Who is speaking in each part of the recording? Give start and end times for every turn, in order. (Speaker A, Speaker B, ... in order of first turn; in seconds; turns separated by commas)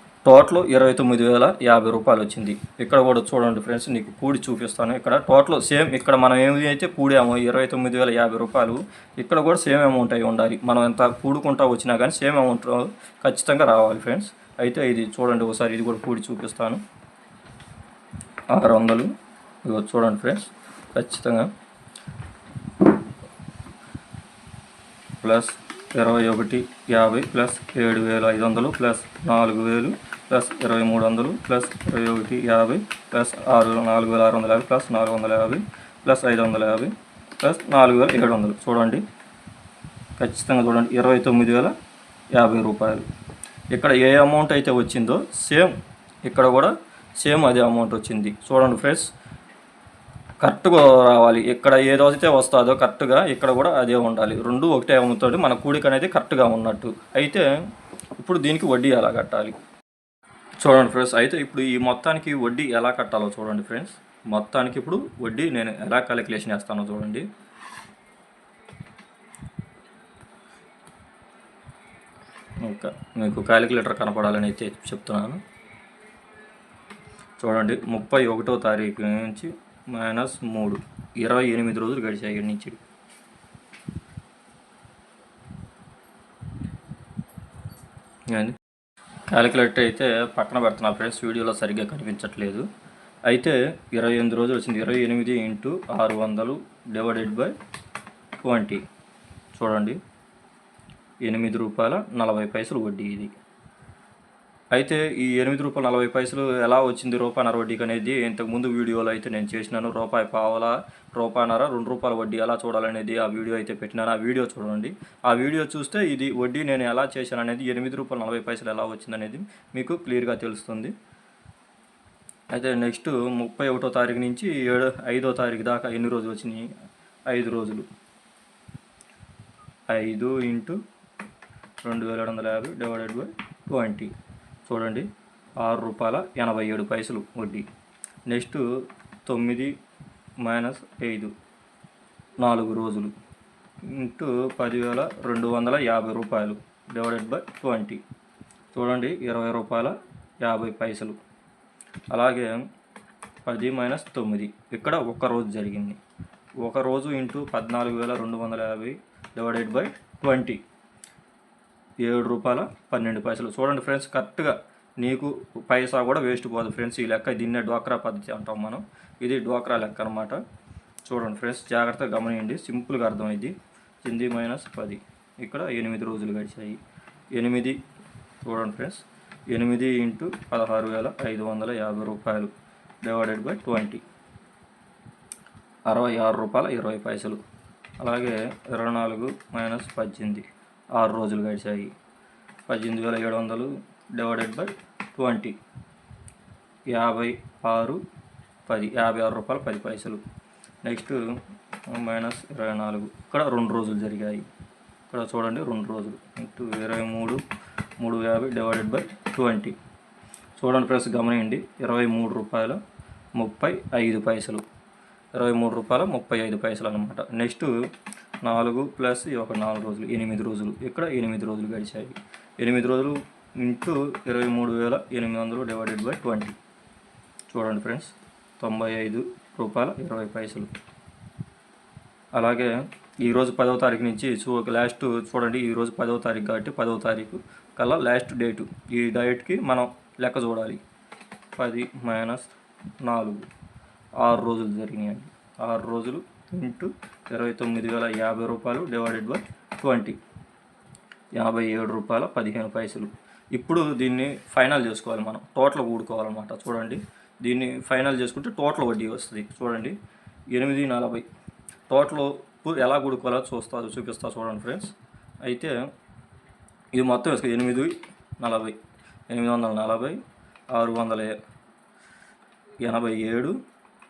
Speaker A: 0.2-16.8, Speaker A: 18.5-19.1, Speaker A: 19.6-21.5, Speaker A: 25.2-39.0, Speaker A: 40.2-41.7, Speaker A: 42.3-43.0, Speaker A: 43.7-45.7, Speaker A: 46.2-49.1, Speaker A: 50.4-57.5, Speaker A: 58.2-59.6, Speaker A: 60.6-67.2, Speaker A: 72.6-75.4, Speaker A: 77.4-82.8, Speaker A: 88.3-88.6, Speaker A: 89.3-92.7, Speaker A: 93.3-97.5, Speaker A: 98.4-98.8, Speaker A: 99.5-100.0, Speaker A: 101.2-103.3, Speaker A: 104.7-120.9, Speaker A: 122.5-126.7, Speaker A: 127.3-127.9, Speaker A: 129.9-130.8, Speaker A: 131.8-134.1, Speaker A: 134.7-135.1, Speaker A: 135.6-137.7, Speaker A: 138.3-138.7, Speaker A: 139.2-139.7, Speaker A: 140.4-141.3, Speaker A: 142.4-143.1, Speaker A: 143.8-148.0, Speaker A: 148.7-151.2, Speaker A: 152.1-152.5, Speaker A: 153.4-156.0, Speaker A: 156.6-160.6, Speaker A: 162.0-170.4, Speaker A: 171.1-176.8, Speaker A: 177.3-177.8, Speaker A: 178.4-182.5, Speaker A: 183.0-184.0, Speaker A: 185.9-187.4, Speaker A: 188.0-191.9, Speaker A: 192.7-195.6, Speaker A: 196.9-198.0, Speaker A: 198.7-200.2, Speaker A: 200.8-201.2, Speaker A: 201.9-204.5, Speaker A: 205.1-207.4, Speaker A: 208.0-209.8, Speaker A: 210.6-212.8, Speaker A: 213.4-214.6, Speaker A: 215.3-217.7, Speaker A: 218.4-226.6, Speaker A: 227.5-230.7, Speaker A: 232.3-240.8, Speaker A: 241.6-243.5, Speaker A: 244.2-250.2, Speaker A: 251.4-260.0, Speaker A: 260.5-261.2, Speaker A: 261.9-264.9, Speaker A: 265.4-265.7, Speaker A: 266.9-268.8, Speaker A: 269.3-270.2, Speaker A: 270.7-271.3, Speaker A: 272.8-273.6